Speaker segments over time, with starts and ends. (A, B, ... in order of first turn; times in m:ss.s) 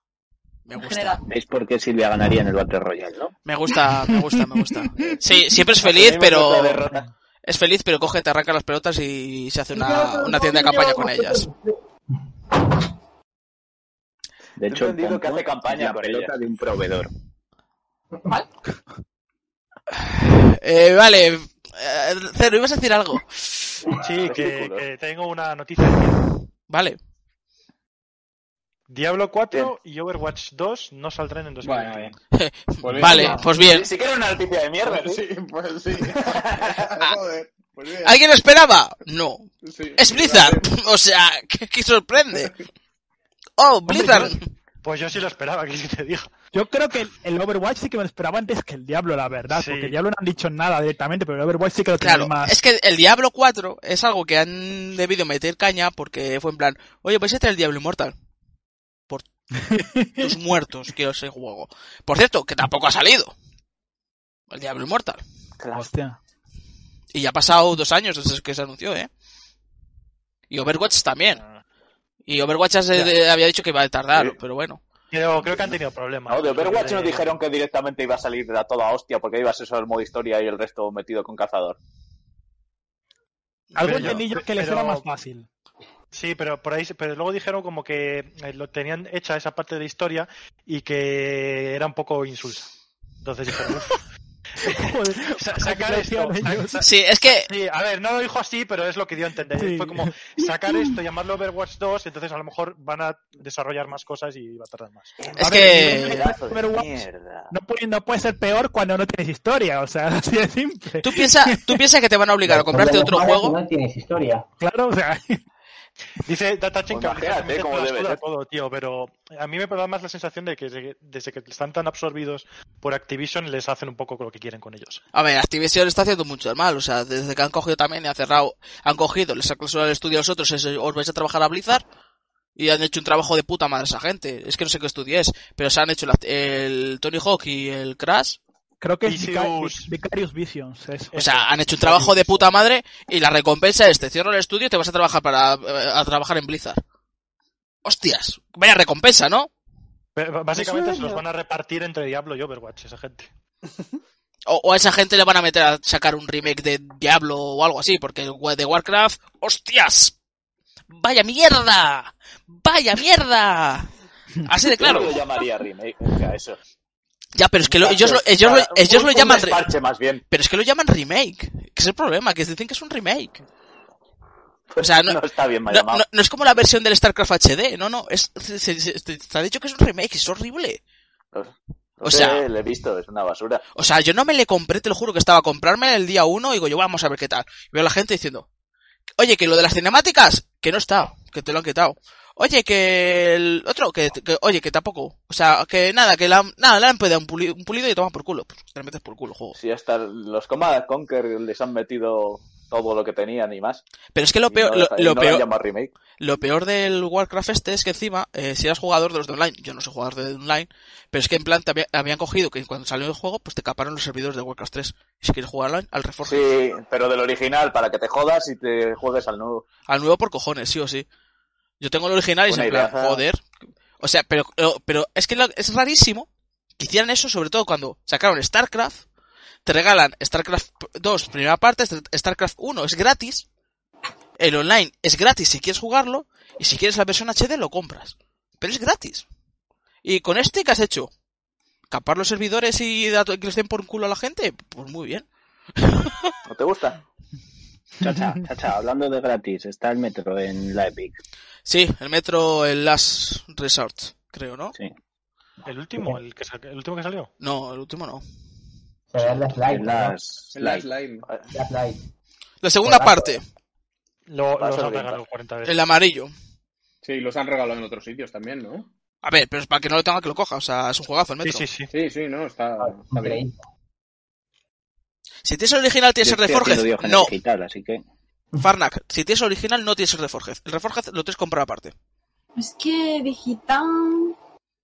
0:00.7-0:01.2 A
0:00.8-0:01.2 B
0:01.3-0:03.3 C
0:03.5-0:06.8 A
0:04.0-0:05.1 D
0:05.8-0:07.0 E
0:07.4-0:11.5 A
0:09.7-0:11.8 B
0:14.6-0:17.1 C
0:14.7-0:16.3 E
0:20.0-0:23.8 A
0:24.0-0:26.3 F
0:24.2-0:24.8 E
0:26.7-0:27.0 A
0:28.9-0:32.2 F
0:31.6-0:32.1 G
0:32.3-0:33.9 A
0:32.8-0:33.4 G
0:33.1-0:35.2 E
0:33.1-0:33.4 F
0:34.8-0:38.2 G
0:36.1-0:37.1 E
0:38.0-0:42.5 A
0:39.6-0:40.7 G
0:43.6-0:44.4 A
0:43.9-0:44.3 D
0:44.8-0:46.3 F
0:46.5-0:52.6 D
0:49.5-0:50.0 F
0:52.0-0:58.1 A
0:59.6-1:00.3 D
1:00.2-1:03.3 A
1:04.5-1:05.2 A
1:05.6-1:05.9 E
1:05.7-1:06.2 D
1:07.1-1:09.1 A
1:10.5-1:11.4 A
1:11.4-1:11.6 F
1:12.3-1:14.8 A
1:15.1-1:17.4 F
1:16.3-1:21.8 E
1:23.8-1:25.5 D
1:23.8-1:25.1 F
1:26.1-1:32.7 F
1:33.2-1:34.0 F
1:34.6-1:45.2 F
1:34.6-1:36.8 D
1:36.8-1:37.5 A
1:39.6-1:41.0 D
1:45.2-1:47.5 E
1:45.4-1:46.2 A
1:45.4-1:51.8 D
1:51.0-1:53.6 A
1:52.5-1:54.5 H
1:54.6-1:55.4 D
1:56.2-2:05.0 F
1:56.9-1:58.2 E
2:05.1-2:11.8 A
2:12.6-2:18.4 A
2:18.8-2:21.2 D
2:19.0-2:19.9 F
2:21.1-2:22.5 F
2:21.2-2:26.8 A
2:27.8-2:29.5 A
2:30.2-2:33.3 F
2:30.6-2:31.2 E
2:34.5-2:40.2 A
2:40.9-2:43.9 A
2:44.4-2:45.2 A
2:44.8-2:46.6 E
2:47.4-2:49.6 A
2:47.6-2:50.2 E
2:50.3-2:53.4 A
2:54.7-2:56.0 E
2:54.8-3:00.8 A
3:01.3-3:03.6 E
3:02.0-3:02.5 A
3:03.8-3:08.5 A
3:09.2-3:19.6 A
3:19.6-3:23.8 E
3:24.1-3:25.4 A
3:24.5-3:25.9 E
3:26.2-3:36.5 A
3:36.2-3:39.6 E
3:39.9-3:41.1 A
3:41.8-3:43.4 A
3:42.5-3:43.2 E
3:44.0-3:46.3 A
3:46.8-3:49.0 A
3:49.6-3:53.4 A
3:54.4-3:59.2 A
4:00.0-4:01.1 A
4:01.9-4:05.3 A
4:05.8-4:06.3 A
4:06.5-4:07.0 E
4:08.0-4:11.2 C
4:11.7-4:14.7 A
4:15.6-4:17.3 F
4:17.4-4:18.2 A
4:19.1-4:20.2 H
4:19.2-4:20.9 C
4:20.6-4:21.3 G
4:21.5-4:22.0 H
4:22.6-4:23.4 A
4:22.8-4:23.4 H
4:24.3-4:25.8 F
4:24.6-4:25.2 E
4:25.6-4:26.3 A
4:27.0-4:28.9 G
4:29.2-4:31.6 A
4:31.4-4:31.9 F
4:31.9-4:33.4 G
4:32.8-4:33.6 H
4:35.4-4:37.3 A
4:36.2-4:38.0 C
4:38.6-4:41.9 A
4:42.6-4:44.4 B